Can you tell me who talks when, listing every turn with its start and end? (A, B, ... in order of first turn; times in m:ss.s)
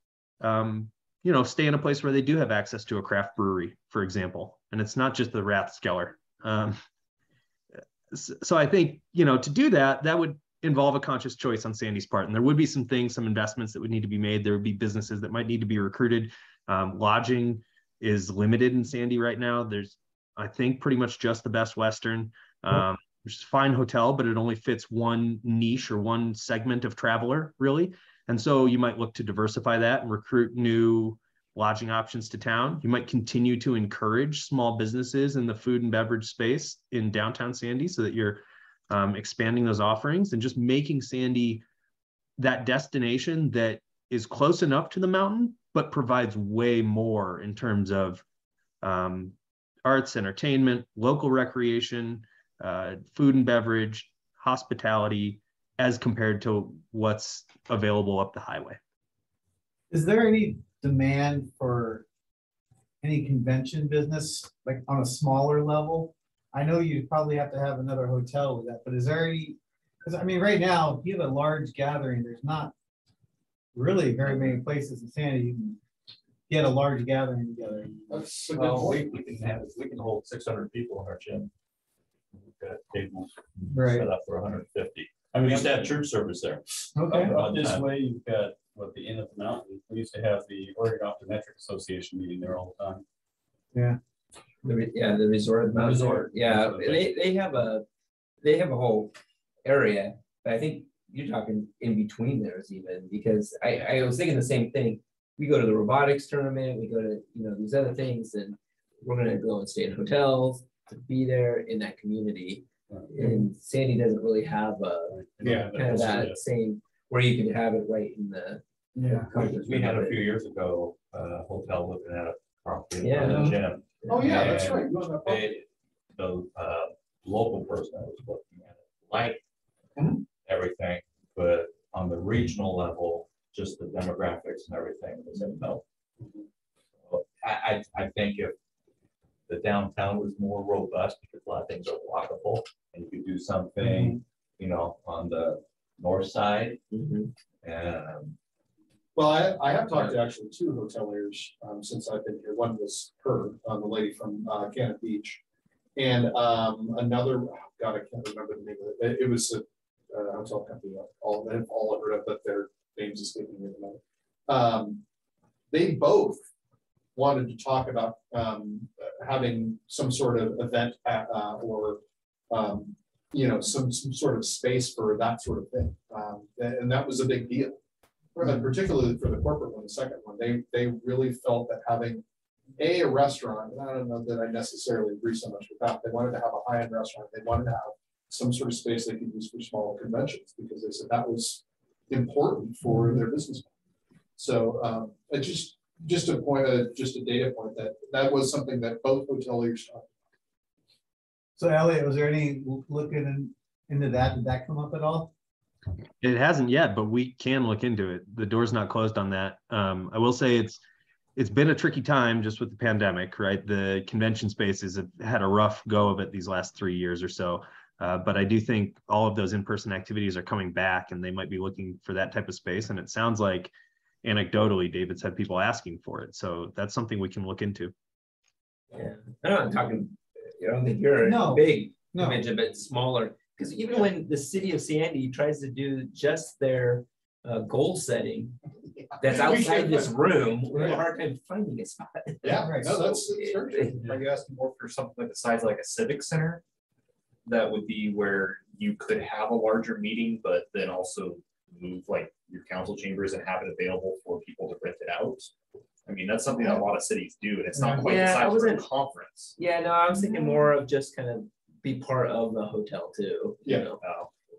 0:00.4-0:06.8 A
0:08.1-0:41.6 A
0:42.4-0:48.2 A
0:48.8-0:49.3 A
0:49.8-0:58.8 A
0:59.9-1:02.0 B
1:03.0-1:12.7 B
1:13.7-1:15.8 B
1:16.5-1:18.3 B
1:18.1-1:19.1 C
1:18.5-1:21.5 D
1:22.3-1:27.9 D
1:23.7-1:24.1 B
1:25.3-1:25.9 E
1:26.9-1:27.4 B
1:27.2-1:33.0 E
1:33.7-1:34.0 B
1:34.6-1:37.8 F
1:35.7-1:37.1 E
1:38.4-1:39.1 F
1:39.6-1:55.2 F
1:53.2-1:53.4 B
1:55.1-1:56.4 E
1:55.4-1:55.7 C
1:55.7-2:00.2 F
1:58.9-1:59.3 B
1:59.3-2:09.4 D
2:03.0-2:03.5 F
2:04.1-2:05.6 C
2:10.0-2:10.2 C
2:10.4-2:15.8 D
2:17.0-2:18.5 D
2:19.5-2:26.8 D
2:23.8-2:24.1 B
2:26.9-2:27.3 F
2:27.6-2:28.3 D
2:29.2-2:35.4 C
2:36.0-2:45.0 C
2:45.7-2:46.4 C
2:47.1-2:57.8 C
2:58.3-3:02.2 C
3:02.8-3:13.7 C
3:12.9-3:13.2 B
3:14.4-3:20.1 C
3:21.6-3:25.3 B
3:26.2-3:30.8 A
3:31.4-3:43.7 A
3:44.2-3:47.9 A
3:48.9-3:58.5 F
3:51.2-3:52.4 B
3:59.1-4:01.0 C
3:59.2-4:04.0 F
4:02.4-4:04.0 C
4:02.6-4:03.1 B
4:04.0-4:06.6 G
4:07.4-4:15.5 G
4:16.0-4:19.5 G
4:17.8-4:18.0 B
4:18.0-4:18.8 F
4:19.6-4:24.0 F
4:24.0-4:24.3 G